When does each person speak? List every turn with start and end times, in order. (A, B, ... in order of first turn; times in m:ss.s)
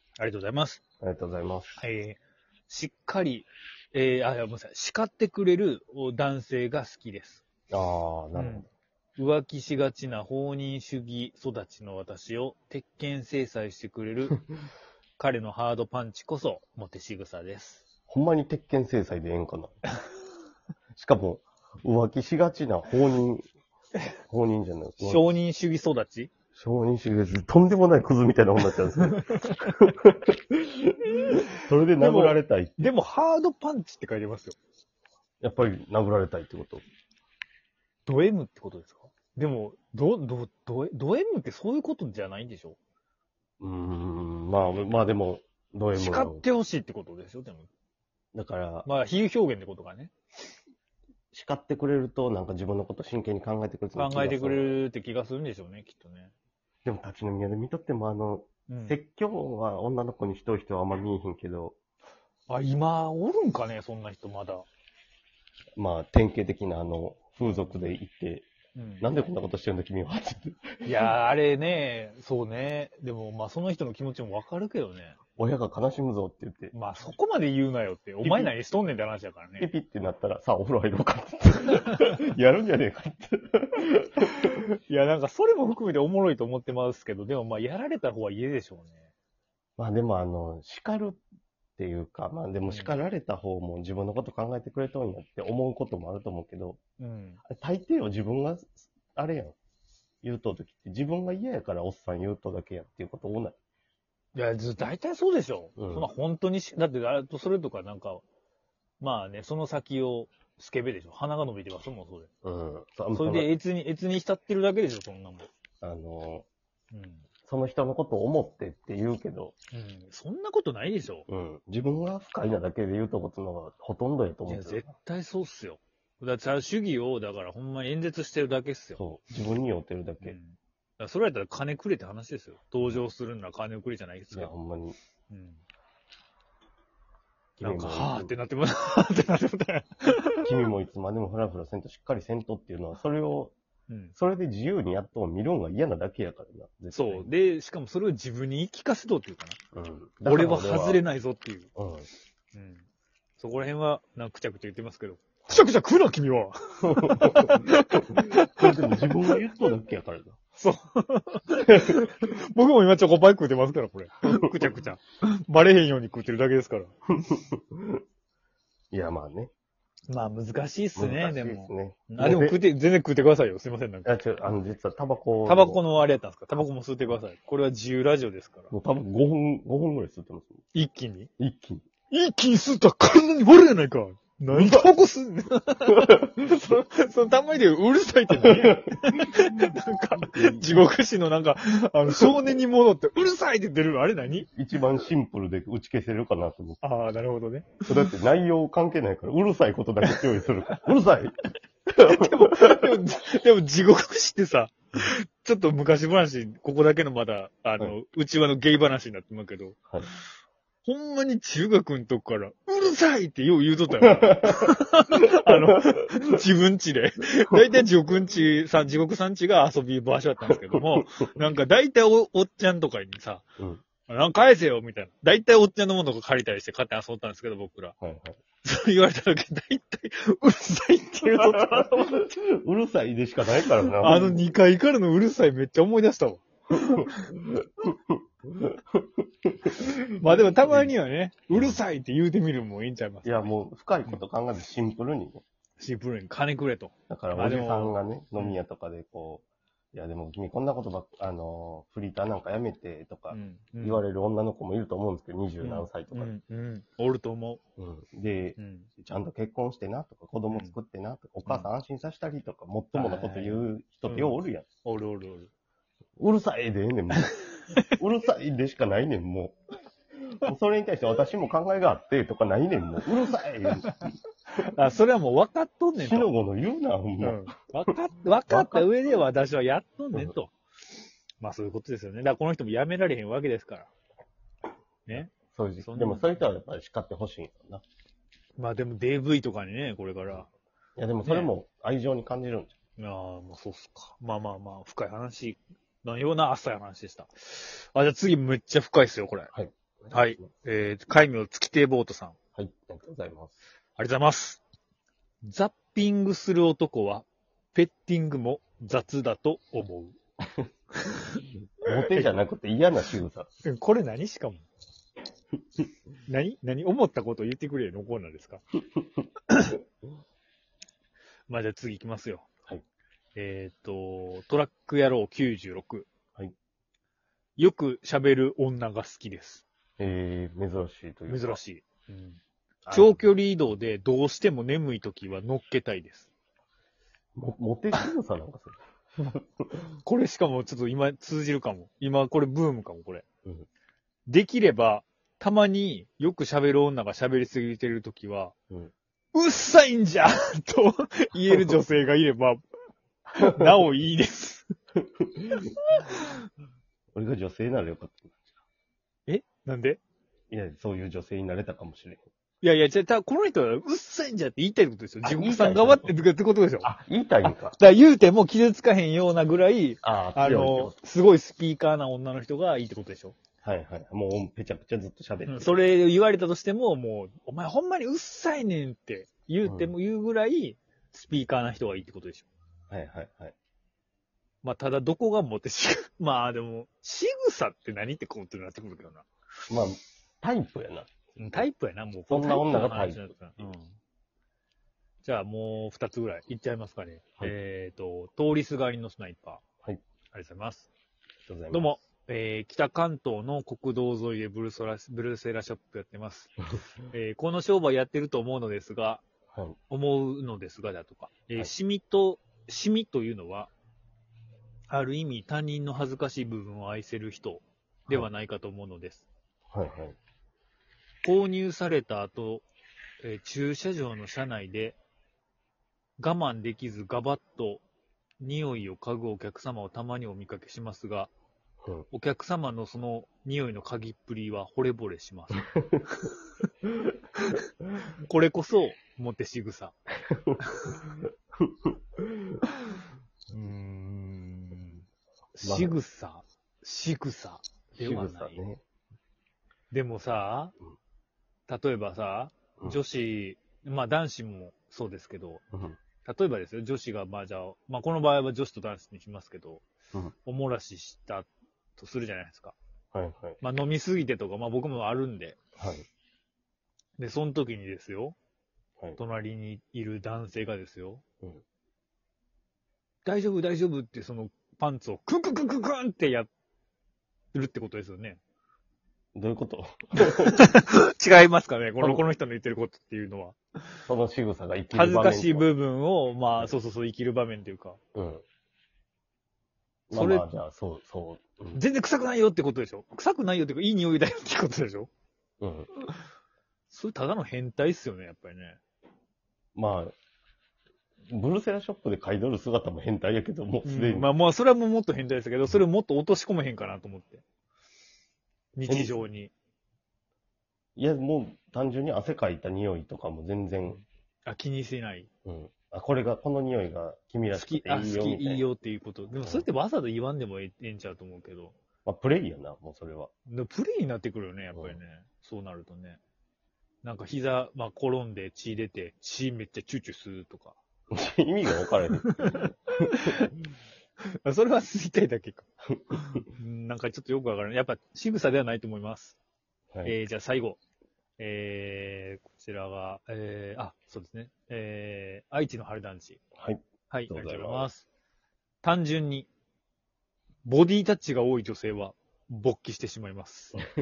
0:00.2-0:00.8 A
0:01.0-0:01.8 B
0:01.8-0:07.4 A
0:07.7-0:08.6 B
0:08.4-0:08.6 A
0:09.2-0:14.4 A
0:15.2-0:17.9 A
0:18.1-0:19.8 B
0:21.0-0:23.4 B
0:24.2-0:25.3 B
0:25.0-0:26.3 A
0:26.5-0:32.9 B
0:29.0-0:29.6 A
0:32.0-0:34.6 A
0:35.4-0:36.8 B
0:38.1-0:42.8 A
0:43.6-0:46.4 B
0:45.9-0:47.7 A
0:48.3-0:48.9 B
0:48.8-0:50.1 A
0:51.3-0:54.8 B
0:54.0-0:56.3 A
0:56.8-1:01.8 B
0:58.7-0:59.0 A
1:02.5-1:04.7 A
1:05.8-1:08.5 B
1:07.4-1:08.0 A
1:08.8-1:09.1 A
1:09.0-1:11.1 B
1:10.8-1:15.2 A
1:15.4-1:16.7 B
1:16.7-1:19.7 A
1:18.2-1:18.5 B
1:19.6-1:24.7 B
1:24.9-1:29.1 A
1:29.8-1:31.2 B
1:31.8-1:36.8 B
1:32.7-1:32.9 A
1:37.0-1:37.4 A
1:37.4-1:39.6 B
1:40.2-1:43.6 B
1:44.4-1:48.2 A
1:45.8-1:46.1 B
1:49.0-1:52.3 A
1:52.4-1:53.5 B
1:53.1-1:55.5 A
1:55.8-1:56.4 B
1:56.9-1:57.2 A
1:57.4-1:59.5 B
1:59.7-2:01.3 A
2:01.3-2:04.8 B
2:04.4-2:09.0 A
2:09.0-2:10.4 B
2:10.2-2:14.5 A
2:14.3-2:15.0 B
2:15.3-2:15.6 A
2:17.6-2:18.4 B
2:17.6-2:20.5 A
2:20.4-2:23.5 B
2:23.9-2:24.1 A
2:24.1-2:27.3 B
2:26.9-2:29.6 A
2:29.7-2:31.0 B
2:30.2-2:31.7 A
2:31.8-2:32.1 B
2:32.5-2:32.8 A
2:33.4-2:39.1 A
2:36.8-2:40.4 B
2:40.6-2:46.9 A
2:41.7-2:42.0 B
2:47.1-2:48.0 B
2:48.9-2:49.5 B
2:50.1-2:54.3 A
2:51.0-2:52.7 B
2:54.0-2:55.8 B
2:55.4-2:58.7 A
2:58.7-3:00.6 B
3:00.7-3:01.3 A
3:01.4-3:01.8 B
3:02.1-3:14.5 A
3:04.5-3:04.9 B
3:08.3-3:09.7 B
3:10.2-3:10.8 B
3:14.5-3:16.8 B
3:16.8-3:18.1 A
3:17.8-3:21.4 B
3:21.9-3:22.8 B
3:22.0-3:29.8 A
3:30.8-3:43.4 A
3:34.0-3:35.9 B
3:44.1-3:47.9 A
3:48.0-3:48.4 B
3:48.6-3:52.2 A
3:51.5-3:54.5 B
3:54.0-3:57.3 A
3:57.2-4:00.9 B
3:59.8-4:03.5 A
4:01.5-4:01.8 B
4:03.2-4:05.4 B
4:05.8-4:08.6 A
4:07.1-4:16.3 B
4:13.3-4:14.0 A
4:15.6-4:17.6 A
4:17.8-4:24.6 B
4:18.6-4:18.9 A
4:22.9-4:25.5 A
4:26.2-4:27.3 B
4:27.2-4:27.8 A
4:27.9-4:29.6 B
4:30.3-4:34.1 B
4:33.7-4:34.0 A
4:34.6-4:36.3 A
4:36.0-4:37.9 B
4:37.2-4:40.5 A
4:38.5-4:38.9 B
4:41.4-4:43.9 A
4:45.1-4:45.3 A
4:45.1-4:47.8 B
4:45.8-4:46.2 A
4:48.6-4:50.5 A
4:51.0-4:52.8 B
4:51.2-4:51.5 A
4:53.0-4:59.5 A
4:59.5-5:00.5 B
5:00.1-5:02.4 A
5:02.6-5:03.6 B
5:04.0-5:04.6 A
5:05.4-5:10.2 A
5:11.1-5:12.3 A
5:11.8-5:13.5 B
5:13.6-5:14.6 A
5:16.2-5:18.6 A
5:21.5-5:22.5 A
5:23.3-5:26.1 A
5:27.6-5:29.6 A
5:30.0-5:31.6 B
5:31.3-5:32.4 A
5:32.8-5:33.3 B
5:32.9-5:36.3 A
5:37.4-5:39.8 B
5:40.0-5:43.2 A
5:44.3-5:48.5 A
5:49.3-5:52.6 A
5:53.3-5:54.7 A
5:53.4-5:53.8 B
5:55.2-5:55.6 B
5:55.8-5:56.3 A
5:57.1-5:58.6 B
5:59.3-6:00.0 A
6:00.5-6:02.2 B
6:02.6-6:06.9 A
6:05.2-6:06.2 B
6:06.8-6:07.8 B
6:07.4-6:13.4 A
6:10.0-6:11.0 B
6:13.6-6:15.7 B
6:15.5-6:22.5 A
6:19.6-6:19.9 B
6:22.9-6:23.6 B
6:24.6-6:29.3 A
6:29.7-6:31.6 B
6:31.4-6:33.9 A
6:32.3-6:33.3 B
6:35.2-6:39.6 A
6:40.3-6:40.9 A
6:41.4-6:41.9 B
6:41.7-6:46.6 A
6:47.1-6:49.2 A
6:49.5-6:49.8 B
6:49.9-6:53.7 A
6:54.9-6:59.2 A
6:59.7-7:00.2 B
7:01.2-7:02.6 A
7:03.2-7:05.0 A
7:06.2-7:07.8 A
7:08.4-7:11.3 A
7:12.1-7:16.3 A
7:15.6-7:16.0 B
7:17.4-7:19.9 A
7:20.3-7:22.6 B
7:22.7-7:22.9 A
7:23.5-7:25.0 A
7:25.6-7:28.6 A
7:25.6-7:26.0 B
7:28.0-7:28.8 B
7:29.9-7:30.7 A
7:31.7-7:35.6 A
7:35.7-7:36.0 B
7:36.2-7:39.8 A
7:40.4-7:42.8 A
7:43.1-7:43.6 B
7:43.6-7:45.6 A
7:45.8-7:46.0 B
7:47.2-7:48.4 A
7:49.2-7:51.2 A
7:53.2-7:56.5 A
7:57.5-7:58.4 A
7:59.3-8:00.6 B
8:00.2-8:04.0 A
8:02.0-8:02.2 B
8:04.1-8:05.7 B
8:04.9-8:08.0 A
8:08.2-8:08.4 B
8:10.1-8:11.8 B
8:10.1-8:10.4 A
8:11.7-8:15.1 A
8:15.6-8:15.9 B
8:16.9-8:18.8 A
8:19.7-8:20.1 B
8:21.3-8:24.3 B
8:23.8-8:27.4 A
8:28.7-8:29.5 A
8:28.9-8:29.2 B
8:31.0-8:34.0 B
8:34.5-8:35.3 A
8:35.5-8:38.7 B
8:37.5-8:41.8 A
8:39.4-8:39.7 B
8:42.0-8:43.3 B
8:43.5-8:46.2 A
8:47.0-8:50.8 A
8:51.1-8:53.4 B
8:52.2-8:53.5 A
8:54.2-8:59.4 A
8:55.9-8:56.2 B
9:00.0-9:00.8 A
9:01.4-9:06.4 A
9:06.6-9:07.9 B
9:07.1-9:08.1 A
9:08.8-9:09.5 A
9:10.6-9:13.8 A